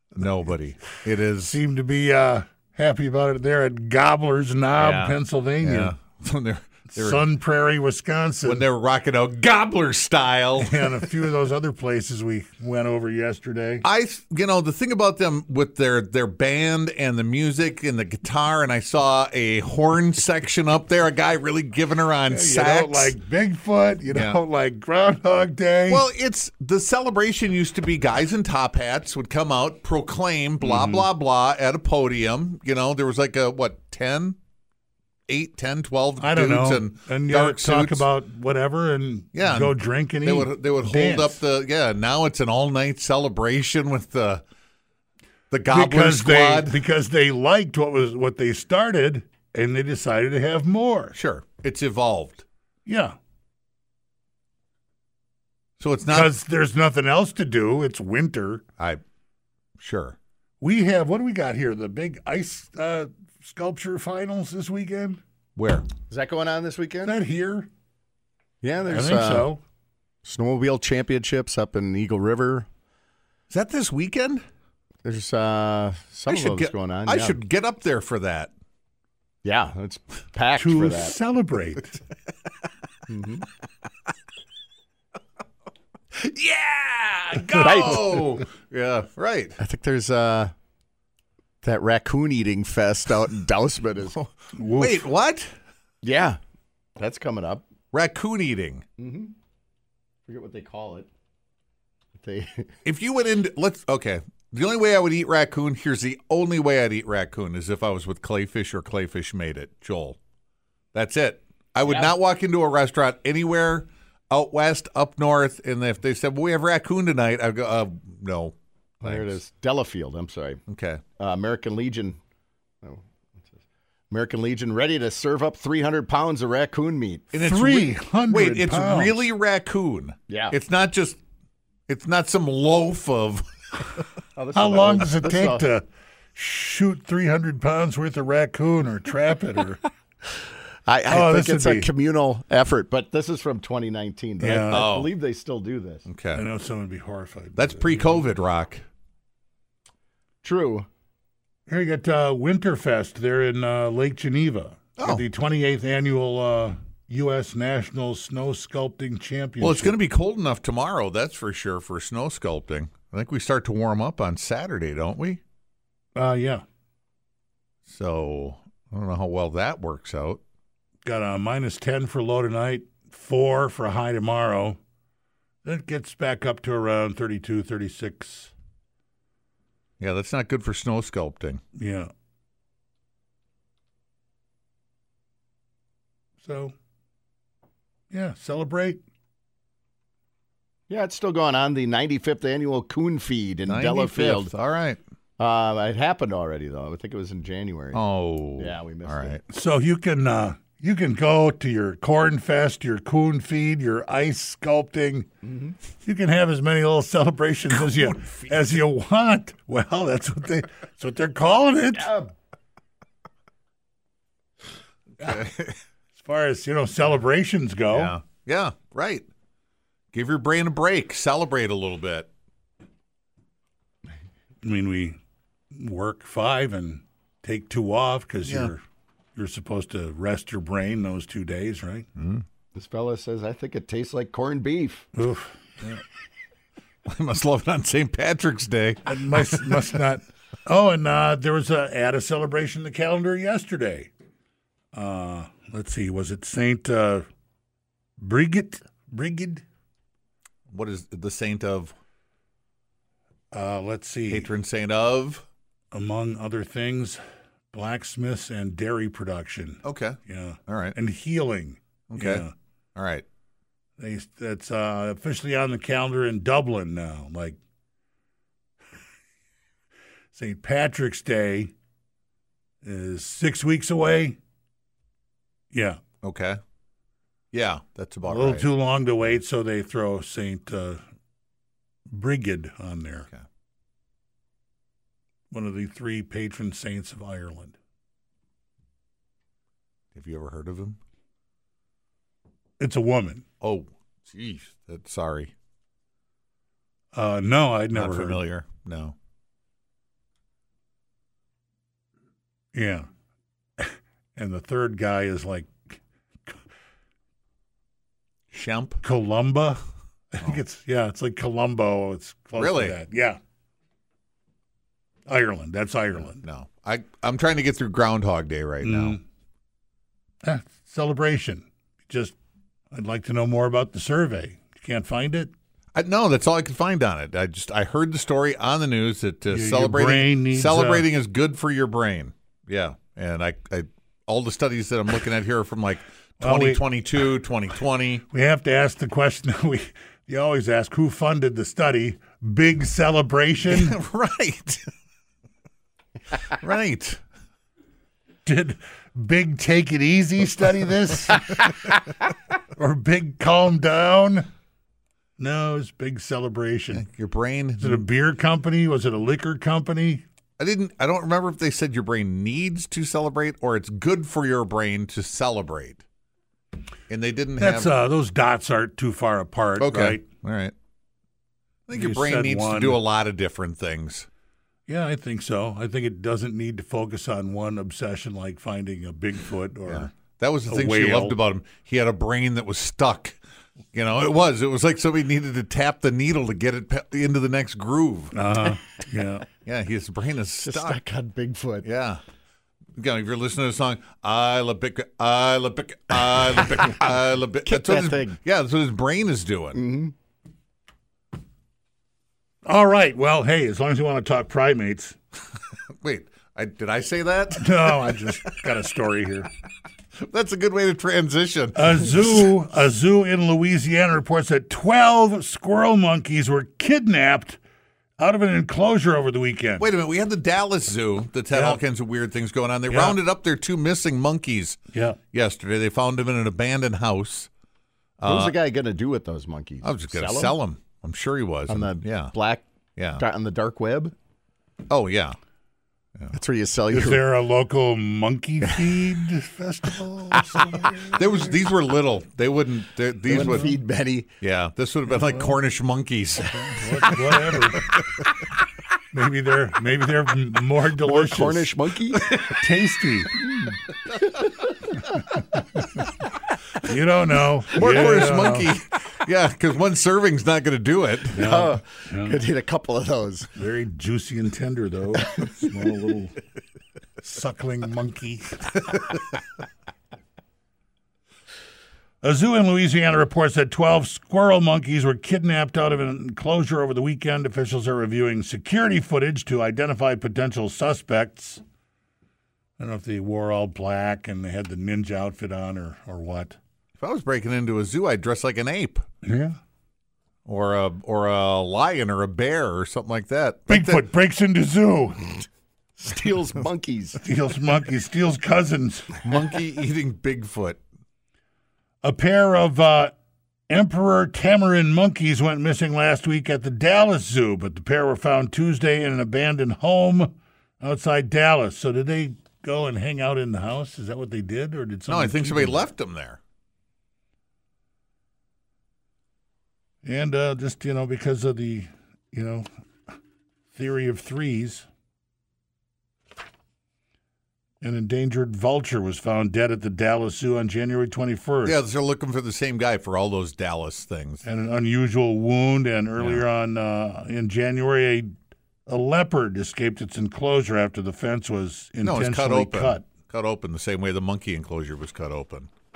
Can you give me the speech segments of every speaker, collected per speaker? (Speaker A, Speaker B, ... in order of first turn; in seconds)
Speaker A: 0.1-1.6, 4.8-7.3, 8.4-11.1, 13.8-23.2, 24.0-24.4, 25.9-34.4, 35.3-38.1, 39.3-44.4, 45.5-46.8, 51.1-52.5, 55.8-56.3, 59.8-60.2, 65.6-65.9, 73.5-74.4, 76.3-78.5, 86.1-89.6, 94.8-95.5, 97.9-98.8, 102.8-110.2, 110.9-119.4, 120.7-121.0, 127.3-131.2, 131.9-134.1, 144.7-145.1, 146.1-146.4, 147.6-148.8, 155.0-155.2, 159.6-165.4, 167.9-170.4, 180.0-181.6, 193.7-195.0, 197.9-199.4, 207.7-208.5, 215.2-215.8, 217.9-219.3, 220.1-222.3, 228.4-228.7, 232.2-232.4, 237.1-239.8, 250.7-251.9, 254.3-255.5, 259.8-261.0, 262.1-263.2, 276.2-276.6, 277.5-278.7, 290.1-291.0, 293.6-295.5, 297.9-299.2, 308.5-309.0, 312.6-313.0, 316.2-319.2, 325.9-338.2, 343.7-344.8, 346.5-347.2, 356.9-358.0, 360.6-366.0, 367.1-367.9, 369.8-370.7, 371.9-374.3, 379.9-383.4, 383.9-388.4, 389.6-391.0, 391.8-392.2, 393.0-399.8, 406.0-408.3, 410.2-412.4, 419.8-424.8, 425.3-427.5, 428.2-428.6, 429.8-432.3, 433.0-433.2, 434.9-435.4, 441.1-443.8, 444.4-447.1, 457.7-461.4, 487.0-489.1, 490.5-493.9, 499.2-500.8, 515.1-516.4, 531.6-534.5, 536.2-536.5, 542.0-545.7
Speaker B: 1.4-6.0, 6.9-8.7, 10.6-13.8, 22.3-26.1, 36.2-41.4, 45.7-51.2, 52.9-53.2, 56.1-58.6, 60.6-65.2, 67.0-67.7, 68.9-69.6, 80.6-82.0, 87.3-88.0, 94.5-95.1, 127.4-129.3, 134.5-139.8, 141.1-141.9, 144.4-144.9, 146.3-148.2, 151.7-160.0, 166.2-166.7, 171.0-174.8, 175.6-178.5, 181.8-182.1, 186.4-186.7, 188.1-189.0, 199.5-205.3, 206.0-212.1, 216.2-218.1, 224.6-225.2, 225.7-228.8, 229.3-232.1, 235.2-236.0, 239.1-244.1, 244.9-247.3, 248.2-249.6, 253.5-254.5, 255.9-257.2, 257.7-262.5, 264.0-267.6, 270.3-271.7, 272.8-274.4, 275.7-276.0, 278.2-281.0, 282.1-283.3, 285.5-287.8, 292.8-293.4, 297.1-298.4, 302.7-303.1, 303.8-306.6, 309.0-309.8, 310.3-313.4, 315.3-316.4, 318.8-319.2, 320.4-322.4, 322.9-325.5, 329.5-331.1, 336.4-336.9, 338.3-344.0, 348.4-351.6, 352.7-354.5, 355.4-357.1, 357.8-360.2, 367.6-370.2, 371.9-373.0, 374.9-380.1, 380.7-381.4, 388.3-389.5, 402.6-405.2, 407.6-409.5, 411.8-417.6, 418.2-419.9, 421.5-421.8, 422.9-423.2, 424.9-425.2, 436.9-441.6, 443.3-443.8, 445.2-445.5, 446.5-447.9, 449.1-451.8, 452.5-453.4, 456.8-458.7, 461.3-462.4, 463.6-466.4, 467.2-468.8, 472.2-481.6, 482.8-486.6, 489.2-489.6, 493.7-495.3, 497.2-499.3, 502.0-503.2, 503.7-515.9, 520.0-522.7, 523.7-524.9, 527.8-531.8, 534.4-538.3, 538.9-543.0
Speaker C: 66.1-67.2, 68.6-69.5, 70.2-72.7, 75.0-77.4, 79.4-81.2, 83.1-83.5, 87.6-88.2, 89.6-90.5, 91.6-94.2, 96.0-96.4, 97.0-97.7, 99.0-99.3, 100.3-101.1, 102.2-102.7, 111.9-112.1, 119.0-120.6, 121.2-122.2, 122.8-123.6, 124.1-127.3, 130.3-130.6, 134.4-135.7, 140.9-146.1, 150.4-150.9, 190.9-194.5, 195.4-198.0, 198.6-199.4, 205.4-205.8, 211.9-212.3, 232.8-235.1, 390.6-391.9, 397.7-398.4, 399.7-400.1, 428.3-430.6, 431.7-434.1, 436.3-437.3, 443.3-444.3, 451.0-452.4, 453.4-454.5, 461.4-463.5, 496.0-497.2